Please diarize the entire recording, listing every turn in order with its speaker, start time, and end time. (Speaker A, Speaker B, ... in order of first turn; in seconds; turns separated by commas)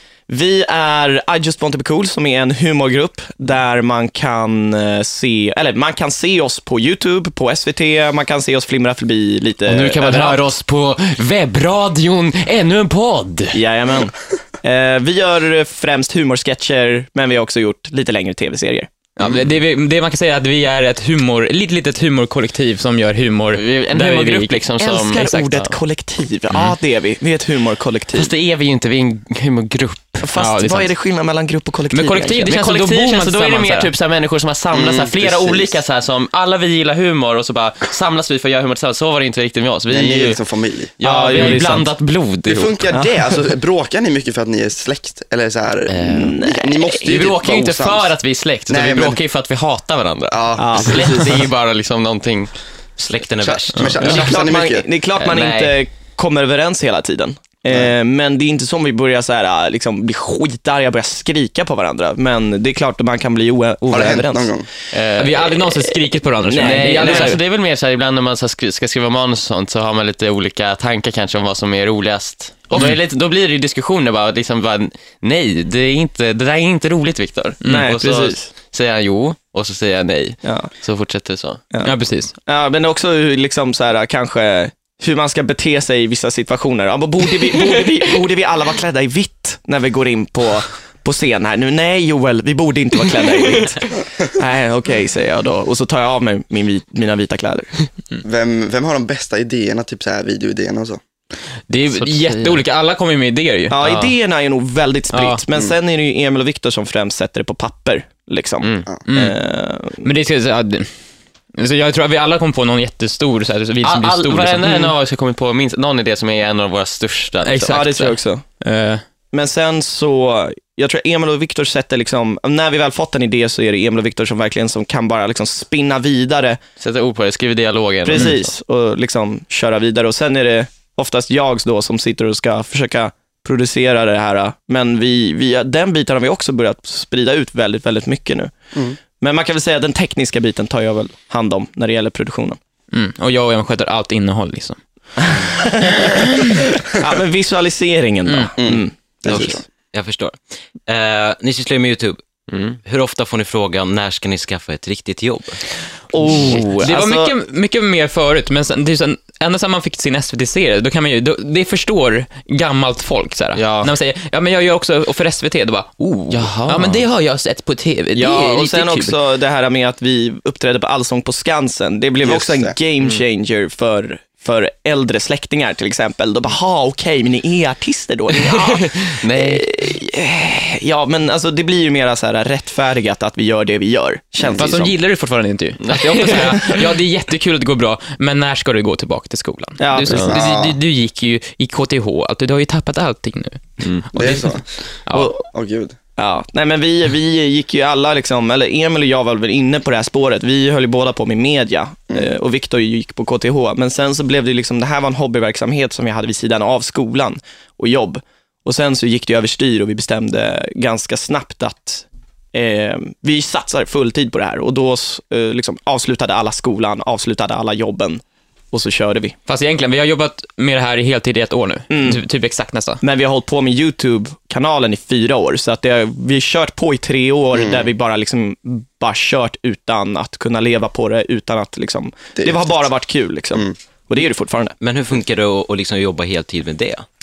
Speaker A: 0.3-10.4, Speaker B: 9.7-13.6, Speaker A: 13.5-18.9, Speaker C: 19.2-24.7, Speaker B: 23.5-25.7, Speaker A: 24.8-28.3, Speaker B: 28.1-30.3, Speaker A: 30.2-32.5, Speaker C: 30.4-30.9, Speaker C: 31.9-33.9, Speaker B: 32.5-40.4, Speaker D: 34.7-35.8, Speaker D: 39.9-40.9, Speaker B: 41.0-42.9, Speaker A: 41.0-41.9, Speaker C: 41.3-41.7, Speaker D: 42.5-48.1, Speaker A: 42.9-43.4, Speaker B: 45.9-46.3, Speaker A: 46.1-47.2, Speaker B: 47.0-52.5, Speaker D: 48.7-49.2, Speaker D: 50.3-51.2, Speaker A: 50.6-51.5, Speaker E: 53.0-54.1, Speaker D: 53.4-54.9, Speaker A: 54.0-64.5, Speaker B: 55.2-55.8, Speaker D: 63.9-64.7, Speaker B: 64.9-65.5, Speaker C: 65.1-67.4, Speaker A: 66.5-67.4, Speaker B: 66.6-81.6, Speaker C: 77.6-78.0, Speaker A: 77.7-78.5, Speaker A: 80.4-80.7, Speaker A: 81.7-97.8, Speaker C: 81.8-82.3, Speaker D: 98.2-101.0, Speaker C: 101.7-104.2, Speaker B: 101.9-102.6, Speaker A: 103.7-110.1, Speaker C: 105.1-105.4, Speaker B: 108.6-108.9, Speaker C: 109.1-109.4, Speaker C: 110.0-110.9, Speaker C: 111.5-114.9, Speaker B: 113.8-117.8, Speaker C: 117.4-119.0, Speaker A: 117.7-118.5, Speaker A: 119.3-126.6, Speaker B: 126.8-128.5, Speaker A: 128.1-138.5, Speaker A: 139.1-142.6, Speaker C: 142.9-144.8, Speaker A: 145.2-149.6, Speaker C: 146.1-146.5, Speaker C: 148.3-148.6, Speaker D: 148.6-149.6, Speaker E: 149.3-152.2, Speaker B: 152.5-152.8, Speaker E: 152.8-155.6, Speaker A: 156.1-157.3, Speaker C: 156.3-169.2, Speaker B: 163.6-163.9, Speaker B: 166.3-167.1, Speaker A: 168.2-185.0, Speaker D: 172.2-172.8, Speaker B: 178.6-179.7, Speaker D: 184.4-184.7, Speaker C: 184.5-194.5, Speaker B: 185.8-186.8, Speaker A: 189.8-190.3, Speaker B: 190.1-190.3, Speaker D: 190.2-190.8, Speaker D: 194.2-194.7, Speaker C: 195.1-195.4, Speaker A: 195.1-195.4, Speaker D: 195.5-196.0, Speaker A: 196.2-219.4, Speaker C: 219.5-223.0, Speaker A: 221.9-222.2, Speaker A: 223.0-234.8, Speaker D: 227.5-227.9, Speaker D: 232.4-232.8, Speaker E: 234.8-237.1